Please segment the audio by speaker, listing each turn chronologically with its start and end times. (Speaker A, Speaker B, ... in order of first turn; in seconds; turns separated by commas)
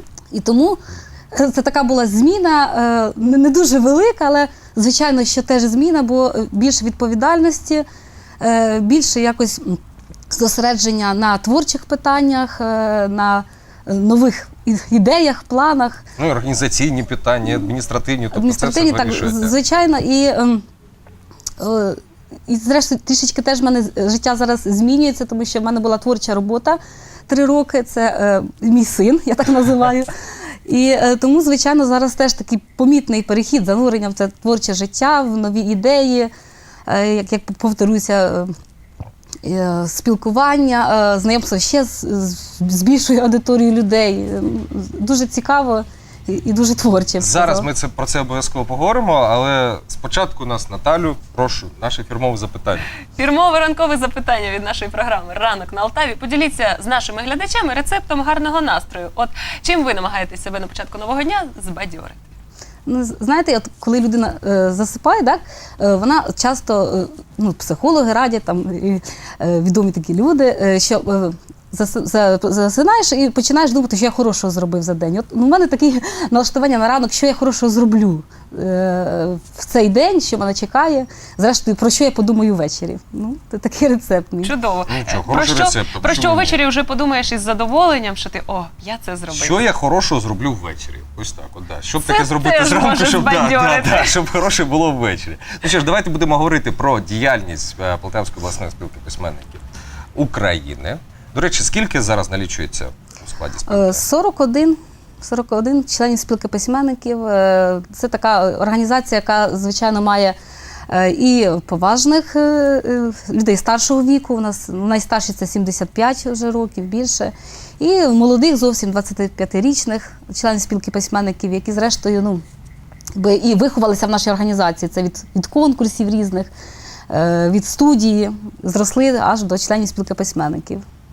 Speaker A: 0.3-0.8, Speaker A: 1.3-7.8, Speaker A: 8.4-16.0, Speaker B: 16.2-19.5, Speaker A: 18.3-20.6, Speaker A: 21.6-30.1, Speaker A: 30.6-36.3, Speaker A: 36.9-38.5, Speaker A: 39.4-47.7, Speaker B: 47.2-52.9, Speaker C: 53.1-62.2, Speaker A: 62.9-84.5, Speaker C: 84.4-89.6, Speaker B: 84.9-86.6, Speaker B: 89.3-99.6, Speaker C: 92.0-94.2, Speaker B: 100.1-104.0, Speaker A: 103.7-110.4, Speaker A: 110.9-122.4, Speaker A: 123.1-126.5, Speaker A: 127.1-130.8